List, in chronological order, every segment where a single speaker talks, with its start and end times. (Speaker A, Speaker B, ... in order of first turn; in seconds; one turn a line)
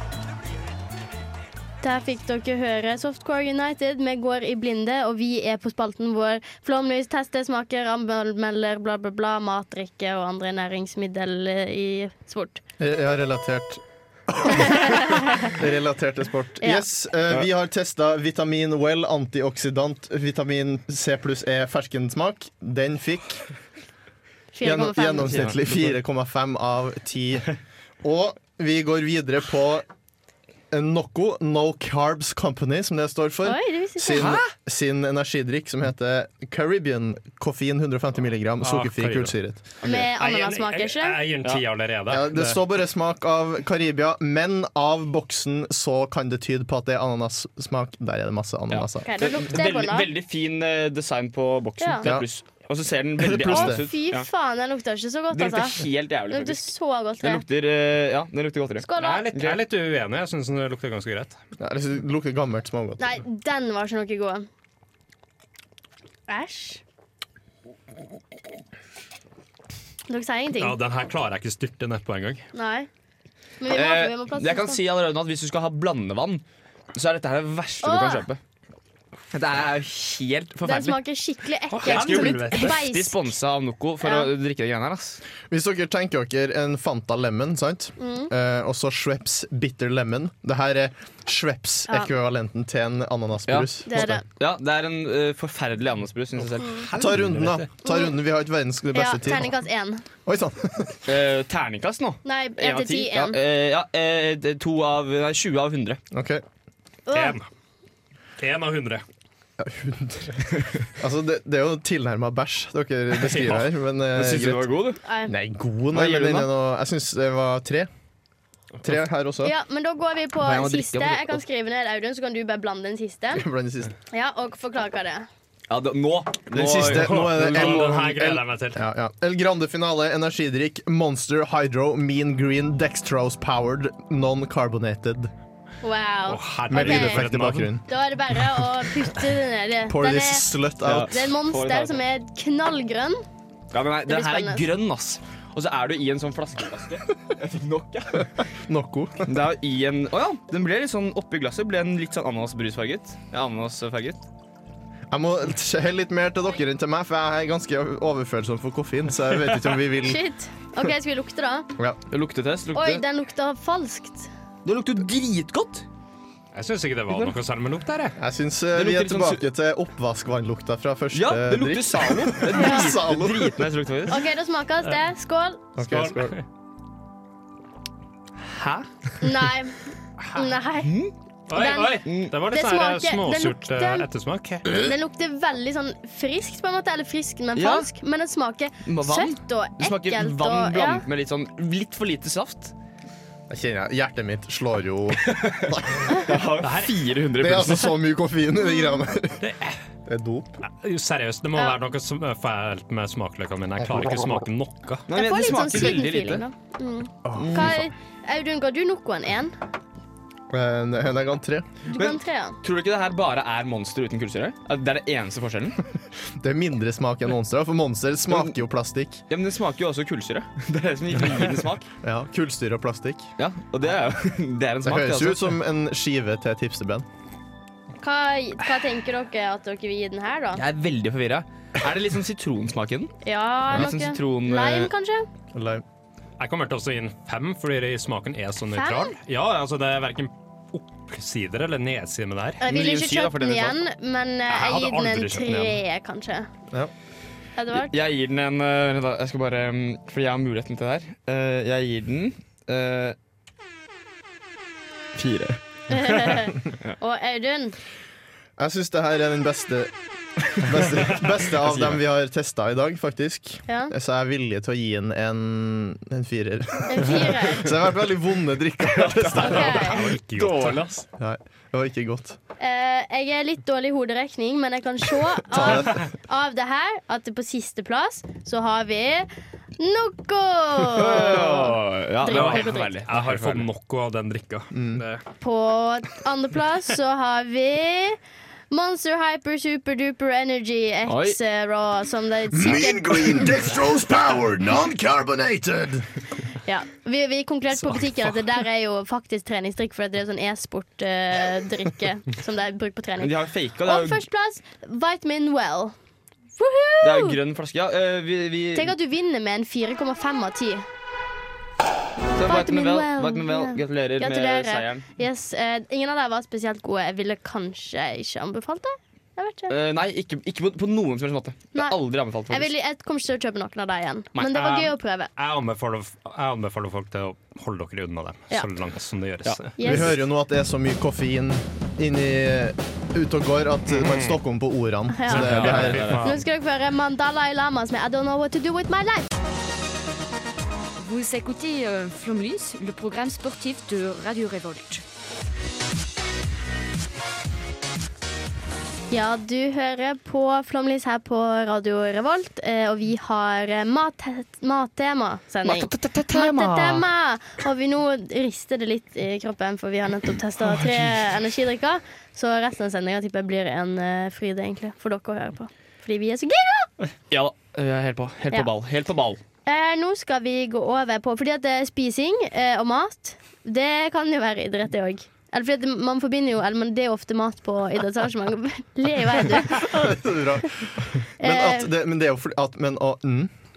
Speaker A: 1.8-12.6
Speaker B: 12.8-23.4
Speaker A: 14.5-15.5
Speaker A: 16.6-16.9
Speaker A: 24.5-25.5
Speaker B: 24.6-27.5
Speaker C: 25.3-25.9
Speaker B: 28.0-29.8
Speaker B: 30.7-39.6
Speaker A: 33.4-34.3
Speaker C: 34.1-34.5
Speaker D: 38.6-39.3
Speaker C: 39.8-40.1
Speaker A: 39.8-41.2
Speaker D: 40.1-42.6
Speaker B: 42.1-49.1
Speaker C: 48.7-54.3
Speaker A: 49.0-50.1
Speaker B: 53.2-53.8
Speaker A: 53.5-57.4
Speaker C: 55.3-59.6
Speaker A: 58.8-59.3
Speaker D: 59.0-61.4
Speaker B: 61.6-63.0
Speaker A: 63.0-64.5
Speaker A: 66.3-66.8
Speaker A: 70.1-70.8
Speaker D: 70.6-72.4
Speaker A: 72.5-72.9
Speaker A: 73.6-74.8
Speaker C: 73.7-76.4
Speaker C: 76.9-78.4
Speaker A: 77.8-78.2
Speaker C: 79.3-81.0
Speaker A: 80.6-83.3
Speaker D: 81.7-82.8
Speaker C: 81.8-85.2
Speaker A: 84.0-84.3
Speaker B: 85.5-94.2
Speaker A: 88.0-88.3
Speaker C: 93.5-96.8
Speaker A: 93.8-94.2
Speaker D: 96.9-97.7
Speaker B: 97.0-99.5
Speaker A: 97.8-98.1
Speaker A: 98.9-100.0
Speaker B: 100.2-101.0
Speaker C: 101.1-106.0
Speaker A: 102.2-103.4
Speaker B: 106.1-106.4
Speaker A: 107.1-107.4
Speaker D: 107.1-107.4
Speaker D: 108.4-109.0
Speaker B: 109.6-110.4
Speaker C: 110.5-110.8
Speaker B: 111.0-114.7
Speaker C: 113.2-113.6
Speaker C: 114.1-115.0
Speaker A: 115.0-115.3
Speaker B: 115.3-117.9
Speaker C: 115.9-116.5
Speaker B: 118.8-119.5
Speaker A: 119.4-123.4
Speaker C: 120.4-121.4
Speaker B: 123.3-123.9
Speaker A: 124.1-125.3
Speaker C: 125.7-127.9
Speaker B: 126.5-135.3
Speaker D: 126.9-128.8
Speaker A: 135.8-137.2
Speaker D: 136.3-137.7
Speaker B: 136.7-137.8
Speaker A: 137.9-143.2
Speaker B: 139.9-141.1
Speaker C: 140.8-142.0
Speaker C: 143.7-148.5
Speaker A: 144.1-144.6
Speaker B: 148.6-149.3
Speaker C: 149.2-154.2
Speaker B: 155.1-160.2
Speaker A: 160.0-161.7
Speaker C: 162.1-163.0
Speaker A: 162.7-164.3
Speaker C: 164.6-165.8
Speaker D: 166.5-168.2
Speaker B: 168.2-173.6
Speaker C: 168.7-169.4
Speaker C: 171.1-174.2
Speaker A: 172.6-172.9
Speaker A: 174.1-175.6
Speaker B: 175.8-176.3
Speaker D: 175.8-176.4
Speaker C: 178.4-179.1
Speaker A: 179.2-180.9
Speaker D: 180.2-180.4
Speaker C: 180.8-181.1
Speaker D: 181.5-184.7
Speaker A: 181.5-184.1
Speaker C: 182.1-182.3
Speaker A: 184.7-191.0
Speaker C: 187.6-187.9
Speaker C: 188.8-192.7
Speaker B: 193.5-196.1
Speaker C: 195.2-197.9
Speaker D: 196.6-197.0
Speaker B: 197.4-199.4
Speaker D: 199.4-199.8
Speaker B: 200.1-200.6
Speaker D: 200.7-205.0
Speaker B: 203.8-204.3
Speaker C: 205.1-206.4
Speaker A: 205.1-209.5
Speaker B: 207.2-207.8
Speaker C: 207.4-207.8
Speaker B: 210.5-211.7
Speaker A: 211.9-212.6
Speaker C: 211.9-215.8
Speaker B: 216.4-219.2
Speaker C: 219.3-221.9
Speaker B: 222.0-223.3
Speaker C: 223.4-225.5
Speaker B: 224.8-227.0
Speaker A: 228.0-230.6
Speaker C: 230.5-233.1
Speaker A: 233.2-235.3
Speaker C: 233.7-234.9
Speaker B: 235.5-235.8
Speaker D: 236.4-242.6
Speaker A: 238.7-239.1
Speaker A: 242.6-246.5
Speaker C: 242.6-243.8
Speaker D: 244.5-245.8
Speaker A: 247.6-247.9
Speaker C: 247.7-253.2
Speaker C: 255.2-255.6
Speaker A: 255.9-257.8
Speaker B: 258.6-259.9
Speaker B: 260.4-269.8
Speaker C: 261.6-262.0
Speaker A: 263.7-263.9
Speaker A: 266.9-267.7
Speaker C: 268.9-271.0
Speaker D: 269.4-270.9
Speaker A: 269.4-270.0
Speaker B: 271.2-272.4
Speaker A: 272.6-279.3
Speaker B: 275.5-276.0
Speaker A: 279.8-282.9
Speaker C: 280.9-283.6
Speaker D: 282.3-285.2
Speaker B: 284.7-285.0
Speaker A: 285.4-288.2
Speaker A: 288.7-293.7
Speaker C: 291.1-291.4
Speaker B: 292.5-296.1
Speaker A: 296.6-305.9
Speaker C: 303.2-304.2
Speaker A: 306.6-307.4
Speaker C: 307.0-308.9
Speaker A: 308.7-310.8
Speaker C: 312.3-315.1
Speaker A: 312.4-319.7
Speaker C: 319.7-322.7
Speaker A: 322.5-325.3
Speaker D: 324.5-329.8
Speaker A: 329.8-330.1
Speaker B: 329.8-336.2
Speaker D: 333.9-334.4
Speaker A: 335.1-335.7
Speaker D: 335.3-336.4
Speaker C: 335.3-336.3
Speaker A: 336.2-339.3
Speaker E: 341.0-345.0
Speaker A: 349.1-366.9
Speaker C: 355.6-357.1
Speaker C: 360.6-361.1
Speaker C: 367.3-369.4
Speaker A: 369.6-380.1
Speaker B: 379.7-383.5
Speaker A: 381.4-381.9